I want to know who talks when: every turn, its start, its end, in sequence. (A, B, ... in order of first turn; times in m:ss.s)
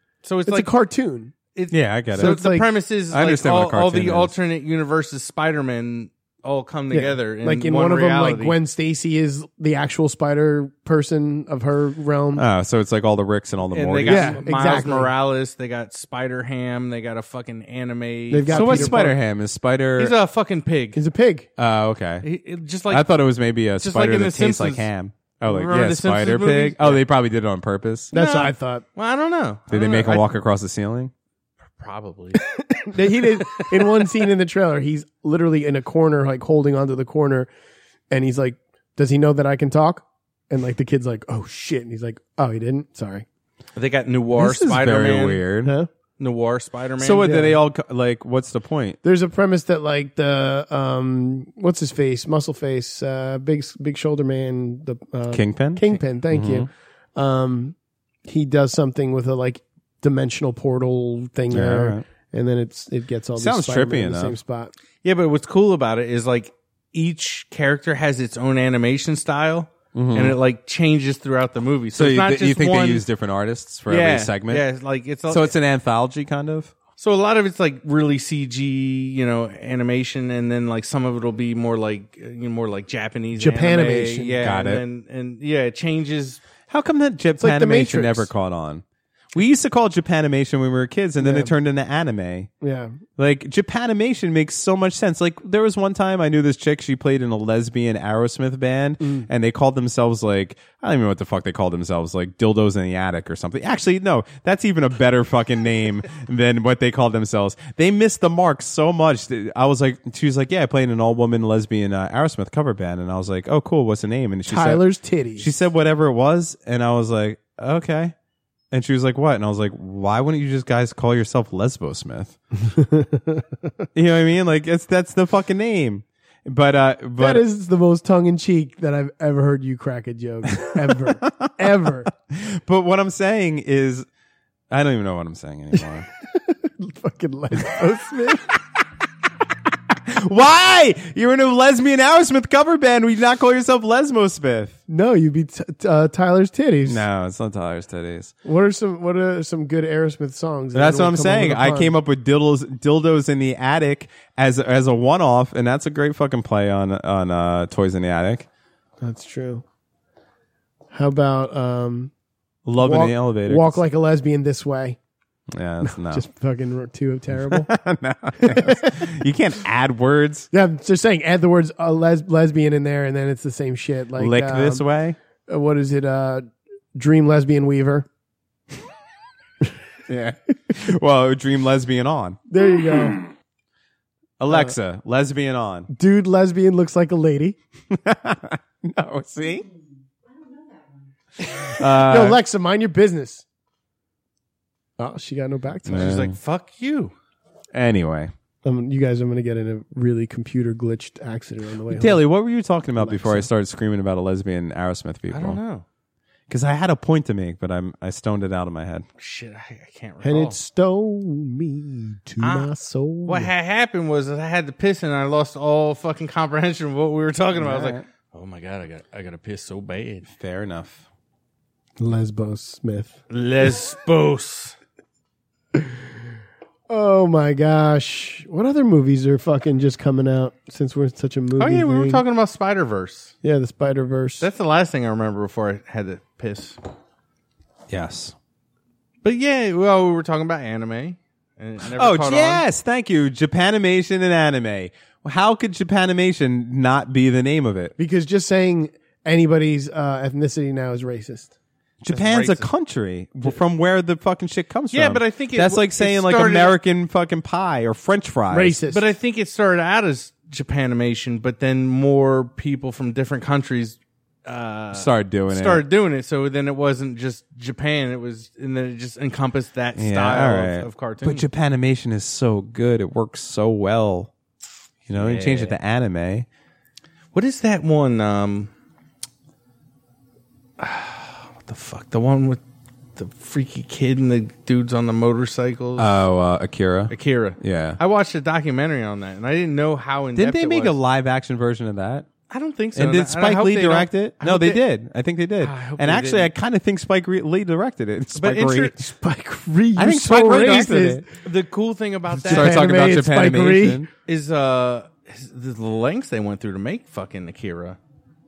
0:00.2-0:00.7 A
0:00.5-0:01.3 B
0:01.5-0:08.6 A
0:01.7-0:02.4 C
0:02.2-0:02.7 B
0:03.1-0:04.4 C
0:06.9-0:12.4 B
0:12.4-0:14.4 C
0:13.7-0:19.0 A
0:14.1-0:15.1 B
0:18.3-0:19.2 B
0:18.5-0:20.1 C
0:20.0-0:21.0 A
0:21.0-0:21.5 B
0:21.6-0:22.3 C
0:22.2-0:23.1 A
0:22.9-0:28.1 C
0:23.8-0:24.9 A
0:25.4-0:27.0 A
0:28.1-0:28.8 B
0:28.1-0:30.3 A
0:29.7-0:31.1 C
0:31.8-0:32.4 A
0:32.8-0:37.5 B
0:33.5-0:33.9 A
0:38.1-0:43.2 B
0:43.8-0:45.4 A
0:44.4-0:45.7 C
0:46.2-0:47.5 A
0:47.0-0:49.0 C
0:49.0-0:57.8 B
0:55.3-0:56.7 C
0:58.3-1:04.7 B
1:01.5-1:02.0 C
1:03.4-1:04.4 C
1:05.0-1:13.0 A
1:10.0-1:10.4 C
1:11.9-1:14.6 C
1:13.9-1:15.5 A
1:15.3-1:16.7 C
1:17.0-1:26.4 A
1:23.4-1:24.4 B
1:24.4-1:24.8 C
1:26.7-1:32.5 C
1:27.4-1:28.3 B
1:31.2-1:31.5 B
1:32.6-1:33.0 B
1:33.2-1:54.8 C
1:39.0-1:39.3 B
1:54.5-1:55.5 B
1:55.4-1:58.2 C
1:58.7-2:02.4 C
2:02.7-2:03.5 B
2:04.0-2:07.5 C
2:07.2-2:12.1 B
2:10.7-2:11.8 C
2:12.3-2:14.1 C
2:14.7-2:16.1 C
2:16.3-2:18.4 B
2:17.5-2:17.8 C
2:20.1-2:24.8 C
2:24.9-2:27.0 B
2:26.8-2:28.3 C
2:28.4-2:31.9 B
2:30.7-2:38.5 C
2:39.0-2:39.6 B
2:40.9-2:42.1 B
2:42.6-2:43.8 C
2:42.8-2:45.0 B
2:45.5-2:46.2 C
2:45.8-2:47.7 B
2:47.4-2:50.5 C
2:48.4-2:49.0 B
2:50.5-2:54.9 B
2:54.2-2:55.2 C
2:55.5-2:58.1 B
3:00.1-3:02.4 C
3:02.5-3:03.2 B
3:04.4-3:05.9 C
3:04.5-3:04.8 B
3:05.9-3:07.6 B
3:07.9-3:09.7 C
3:11.6-3:12.4 C
3:12.0-3:13.4 B
3:15.0-3:16.2 B
3:15.9-3:16.4 C
3:15.9-3:17.1 A
3:17.7-3:18.3 C
3:18.6-3:22.2 B
3:21.9-3:25.6 C
3:23.0-3:23.5 B
3:25.3-3:25.8 A
3:26.5-3:29.1 C
3:29.2-3:30.6 A
3:30.2-3:33.5 B
3:32.4-3:32.7 A
3:33.2-3:40.3 A
3:37.6-3:38.0 C
3:40.3-3:41.0 C
3:42.0-3:43.2 B
3:43.3-3:44.8 A
3:45.8-3:46.0 B
3:46.9-3:52.2 B
3:51.6-3:53.3 A
3:53.4-3:54.5 B
3:54.4-3:56.8 A
3:57.9-3:58.3 C
3:59.2-4:02.6 A
4:02.0-4:07.9 C
4:08.0-4:11.5 B
4:12.0-4:18.8 C
4:12.1-4:12.7 A
4:14.9-4:16.8 A
4:18.5-4:19.0 B
4:18.9-4:31.5 A
4:24.9-4:25.8 C
4:30.0-4:34.3 C
4:35.1-4:35.8 A
4:35.1-4:36.5 C
4:37.3-4:38.7 A
4:40.8-4:42.6 A
4:43.2-4:46.2 A
4:46.0-4:48.0 C
4:47.1-4:51.0 A
4:50.4-4:52.3 C
4:52.5-4:54.8 A
4:53.0-4:59.0 C
4:55.6-4:56.5 A
4:58.4-4:59.0 A
4:59.0-5:01.3 B
5:00.0-5:01.2 C
5:01.4-5:03.2 A
5:02.4-5:04.0 B
5:02.4-5:04.1 C
5:04.2-5:08.0 A